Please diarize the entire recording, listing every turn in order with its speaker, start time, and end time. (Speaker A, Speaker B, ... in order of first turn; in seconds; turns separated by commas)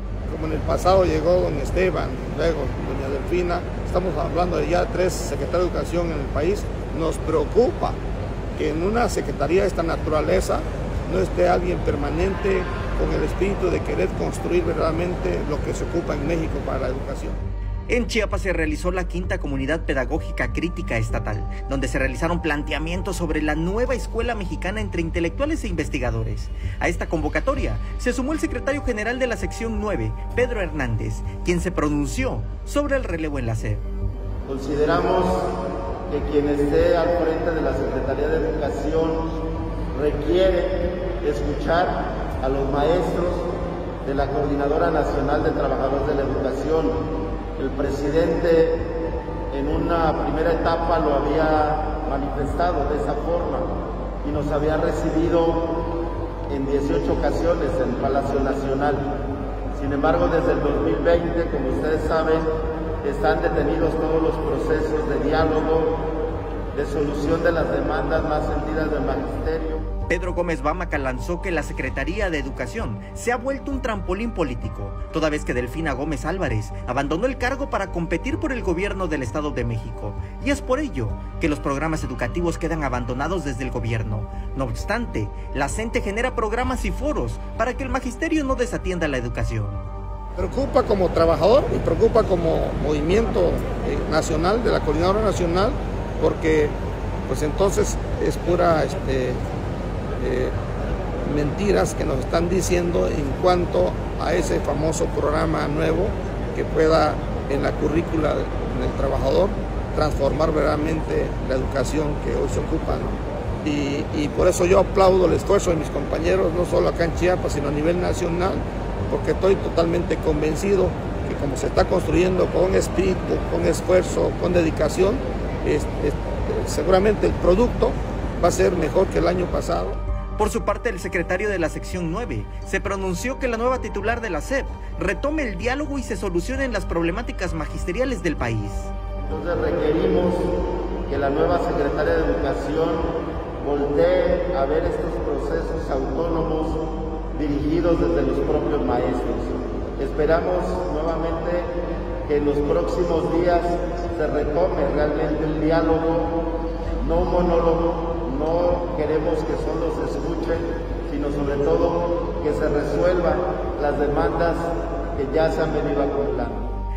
Speaker A: 0.3-8.0, Speaker A: 8.6-17.4, Speaker B: 17.9-33.8, Speaker C: 34.5-35.5, Speaker C: 36.1-43.5, Speaker C: 44.0-47.0, Speaker C: 47.6-48.9, Speaker C: 49.5-55.8, Speaker C: 56.5-59.2, Speaker C: 59.7-62.5, Speaker C: 63.0-66.0, Speaker C: 66.7-69.9, Speaker B: 70.1-89.9, Speaker A: 90.4-96.8, Speaker A: 97.3-99.4, Speaker A: 100.2-100.6, Speaker A: 101.2-130.0, Speaker B: 130.4-138.9, Speaker C: 139.3-140.5, Speaker C: 141.1-146.8, Speaker C: 147.3-156.4, Speaker C: 157.0-166.7